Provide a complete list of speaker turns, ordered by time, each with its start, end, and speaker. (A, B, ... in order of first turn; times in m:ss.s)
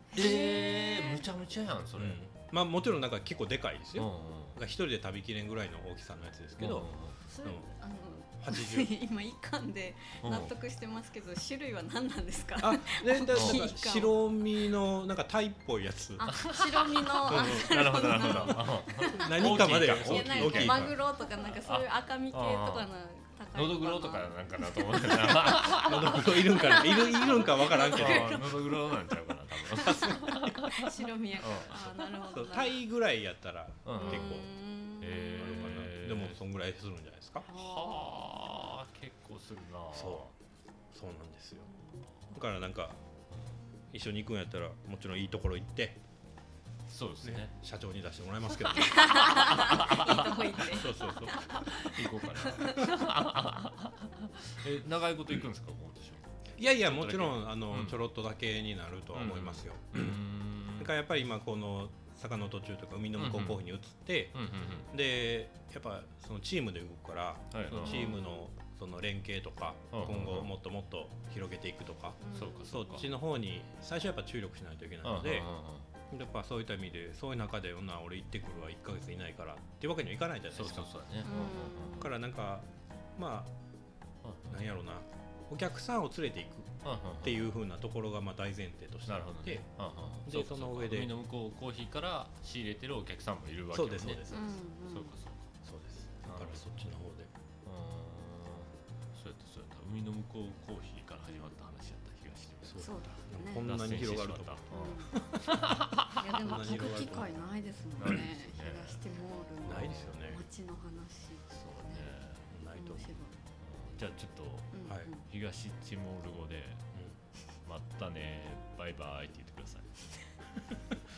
0:00.1-0:01.3 A
0:00.1-0:02.2 B
0:02.0-0:06.9 C
0:04.0-0:04.6 B
0:06.6-0:07.2 B
0:07.3-0:14.1 A
0:07.4-0:07.7 C
0:08.4-0:08.9 C
0:10.2-0:10.5 B
0:12.6-0:16.4 C
0:13.3-0:13.7 B
0:16.2-0:28.9 A
0:16.3-0:22.9 B
0:17.3-0:18.0 C
0:19.0-0:21.0 C
0:23.5-0:27.0 B
0:25.7-0:28.5 C
0:27.6-0:32.1 B
0:29.7-0:32.8 A
0:29.8-0:30.6 C
0:32.3-0:34.5 C
0:33.8-0:34.4 B
0:33.9-0:35.7 A
0:35.0-0:36.4 B
0:35.4-0:37.5 C
0:37.5-0:38.7 A
0:37.5-0:40.3 B
0:39.9-0:40.3 C
0:40.9-0:41.7 C
0:42.3-0:43.0 C
0:43.9-0:46.0 C
0:46.9-0:47.5 B
0:47.2-0:49.8 C
0:48.6-0:53.0 A
0:49.1-0:50.7 B
0:50.6-0:51.8 C
0:51.3-0:56.3 B
0:56.6-1:00.2 C
0:56.8-0:58.0 B
0:59.2-1:00.9 B
1:00.8-1:04.4 C
1:03.2-1:03.6 B
1:04.3-1:04.9 B
1:04.9-1:15.5 C
1:07.5-1:08.2 B
1:07.8-1:08.4 A
1:09.9-1:10.5 B
1:12.2-1:12.8 A
1:12.3-1:13.1 B
1:15.0-1:15.9 B
1:16.1-1:20.9 C
1:20.5-1:22.1 B
1:21.2-1:22.1 A
1:22.0-1:23.5 C
1:24.2-1:24.7 B
1:24.5-1:29.7 C
1:26.8-1:27.5 B
1:29.1-1:35.5 B
1:30.3-1:31.1 C
1:33.7-1:34.3 C
1:34.3-1:35.2 A
1:35.6-1:37.3 C
1:36.3-1:36.8 B
1:37.6-1:42.8 B
1:42.6-1:45.7 C
1:42.8-1:43.7 A
1:43.6-1:44.7 B
1:44.7-1:45.2 A
1:45.5-1:46.2 B
1:46.2-1:52.1 A
1:46.3-1:47.3 C
1:48.0-1:49.0 B
1:49.6-1:50.4 C
1:49.7-1:50.3 B
1:51.5-1:52.4 B
1:52.5-1:53.2 C
1:52.8-1:53.4 A
1:53.6-1:56.8 B
1:54.7-1:55.2 A
1:57.6-1:59.9 B